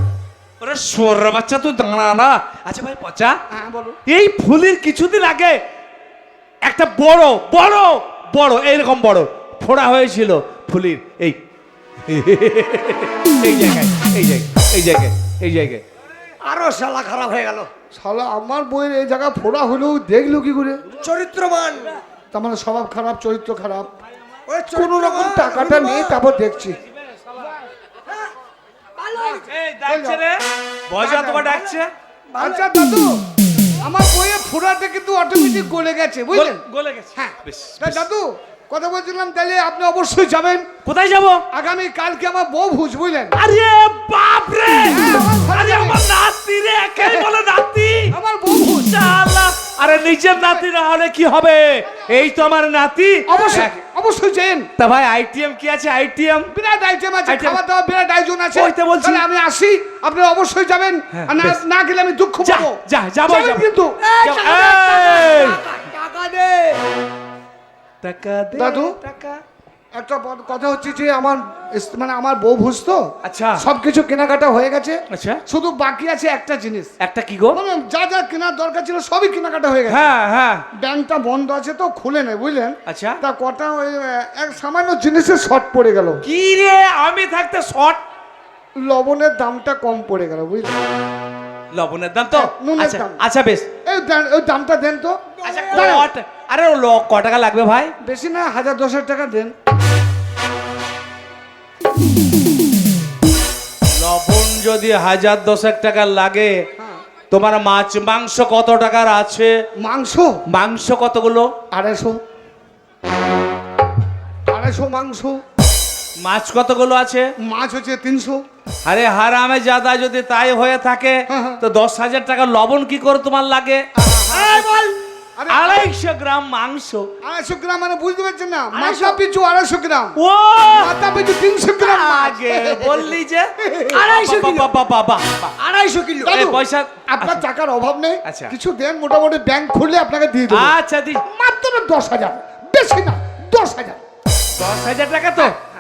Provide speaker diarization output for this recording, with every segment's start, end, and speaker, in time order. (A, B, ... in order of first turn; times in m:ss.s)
0:00.6-0:03.4 A
0:03.5-0:04.0 B
0:04.1-0:05.6 A
0:06.7-0:11.4 A
0:12.1-0:15.8 A
0:16.4-0:17.7 C
0:17.9-0:20.8 B
0:21.0-0:22.0 C
0:22.3-0:23.9 B
0:24.5-0:26.2 C
0:24.7-0:26.8 B
0:28.1-0:28.3 C
0:29.0-0:29.5 C
0:29.5-0:30.4 A
0:29.9-0:30.2 B
0:30.9-0:31.9 A
0:31.0-0:31.6 B
0:32.3-0:32.7 C
0:32.4-0:33.2 B
0:33.8-0:36.6 B
0:36.3-0:38.0 A
0:37.2-0:40.7 B
0:40.8-0:41.4 A
0:41.5-0:43.4 B
0:43.4-0:48.1 A
0:44.9-0:46.0 B
0:47.0-0:47.3 B
0:48.1-0:49.1 B
0:48.8-0:53.7 A
0:50.4-0:50.6 B
0:53.3-0:54.7 B
0:54.8-0:56.5 A
0:56.5-1:04.0 B
0:57.3-0:57.6 A
0:58.5-0:59.2 A
1:01.1-1:01.6 A
1:02.4-1:03.7 A
1:04.0-1:06.8 C
1:04.2-1:05.6 A
1:08.0-1:09.4 A
1:08.6-1:09.0 B
1:09.9-1:13.0 B
1:13.2-1:13.6 A
1:13.6-1:16.9 B
1:15.1-1:15.4 A
1:17.0-1:17.6 A
1:17.5-1:20.1 B
1:19.9-1:20.6 A
1:20.7-1:26.2 B
1:22.9-1:23.2 A
1:26.2-1:28.0 A
1:28.8-1:30.8 B
1:31.7-1:33.7 A
1:32.3-1:33.2 B
1:33.9-1:35.2 B
1:35.4-1:36.0 C
1:35.4-1:37.9 A
1:35.7-1:36.1 B
1:38.0-1:39.5 B
1:44.0-1:46.5 A
1:47.3-1:49.5 A
1:49.8-1:50.4 B
1:50.5-1:51.5 A
1:51.7-1:52.2 B
1:54.5-1:55.4 B
1:56.2-1:57.3 A
1:57.4-1:58.4 B
1:58.9-2:03.8 A
2:01.3-2:01.6 B
2:04.0-2:04.7 B
2:04.3-2:05.0 C
2:05.4-2:05.9 B
2:05.5-2:07.1 A
2:07.2-2:10.2 B
2:08.7-2:09.2 C
2:10.2-2:10.9 A
2:10.8-2:14.0 B
2:11.8-2:15.5 A
2:13.9-2:14.7 C
2:15.6-2:16.5 C
2:16.2-2:17.4 A
2:16.3-2:20.7 B
2:18.3-2:18.5 A
2:20.5-2:21.2 A
2:21.2-2:24.0 B
2:24.6-2:25.6 A